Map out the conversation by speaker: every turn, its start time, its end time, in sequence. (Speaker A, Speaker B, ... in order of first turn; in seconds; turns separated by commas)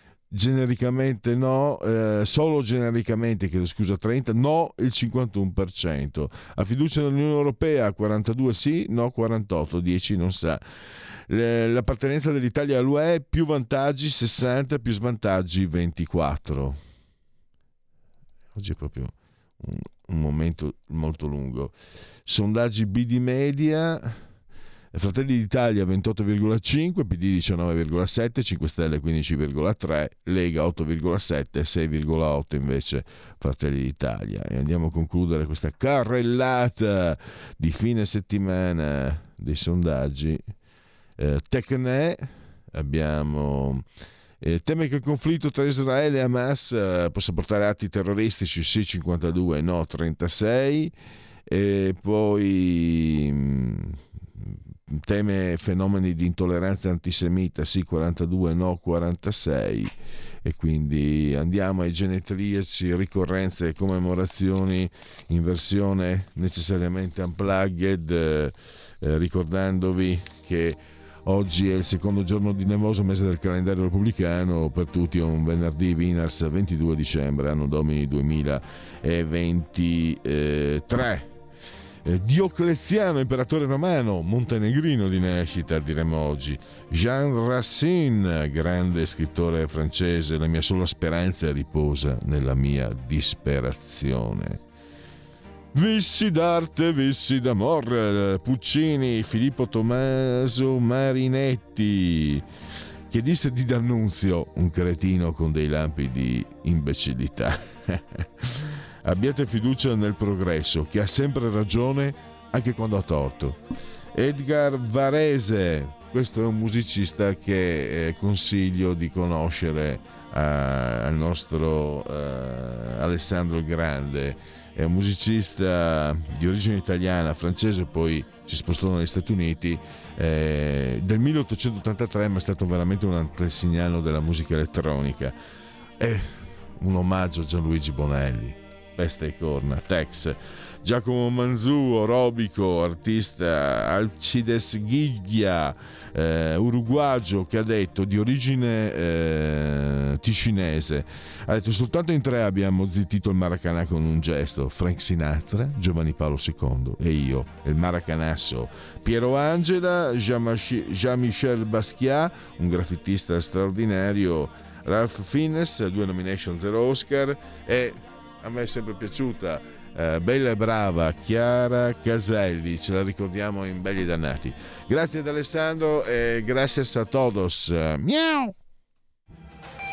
Speaker A: 0.3-10.6, Speaker A: 11.3-16.8, Speaker A: 18.5-24.2, Speaker A: 24.9-40.5, Speaker A: 41.2-43.8, Speaker A: 44.4-50.9, Speaker A: 51.5-81.3, Speaker A: 82.0-94.6, Speaker A: 95.7-102.5, Speaker A: 103.1-113.6, Speaker A: 114.1-135.4, Speaker A: 136.0-178.5